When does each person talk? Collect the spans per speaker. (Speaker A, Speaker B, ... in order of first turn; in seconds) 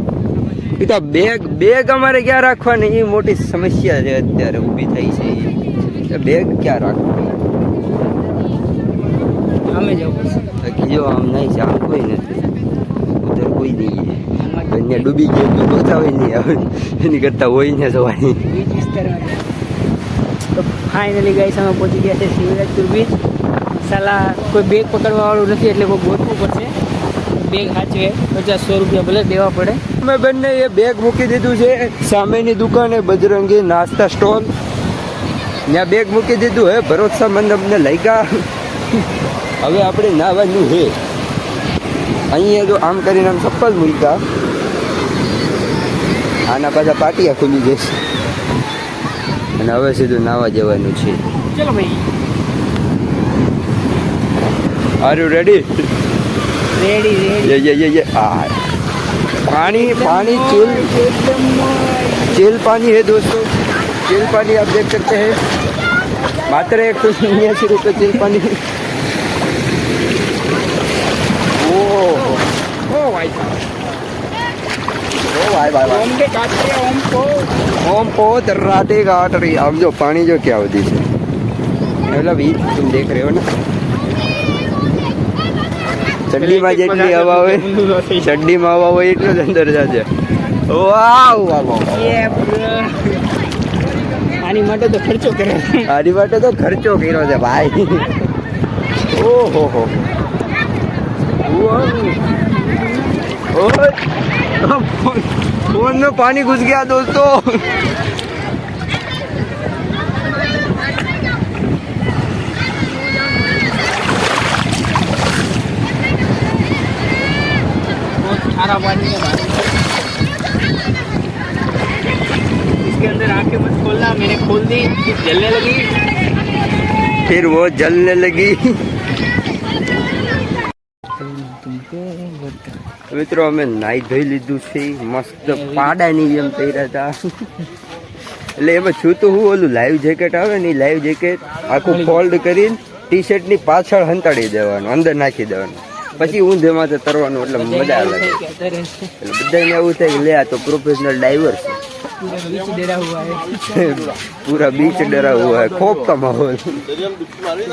Speaker A: 0.8-7.3, 10.6-12.4, 13.2-18.4, 30.0-34.5, 35.7-38.4, 39.6-40.9, 42.3-44.2, 46.5-48.0, 49.6-51.2, 55.0-55.7, 57.4-58.5, 59.4-60.9, 62.3-63.5, 64.1-65.4, 66.5-68.6, 71.5-72.4, 75.3-76.1, 77.8-81.1, 82.1-83.4, 86.3-90.1, 90.7-92.3, 95.9-98.1, 99.1-100.1, 101.5-102.2, 103.5-104.0, 104.6-107.7, 127.3-128.7, 133.1-137.5, 138.6-148.4, 149.2-151.8, 153.7-157.0
Speaker B: 9.7-10.4, 14.4-15.1, 18.5-19.5, 20.5-23.2, 23.8-26.7, 27.4-29.8, 51.5-52.0, 56.8-57.6, 59.6-62.5, 72.1-73.6, 75.6-77.6, 86.3-88.3, 91.9-93.2, 94.4-95.9, 118.2-119.8, 122.8-125.9, 131.2-132.7, 135.4-135.9, 141.8-142.2, 147.4-149.1, 152.2-153.9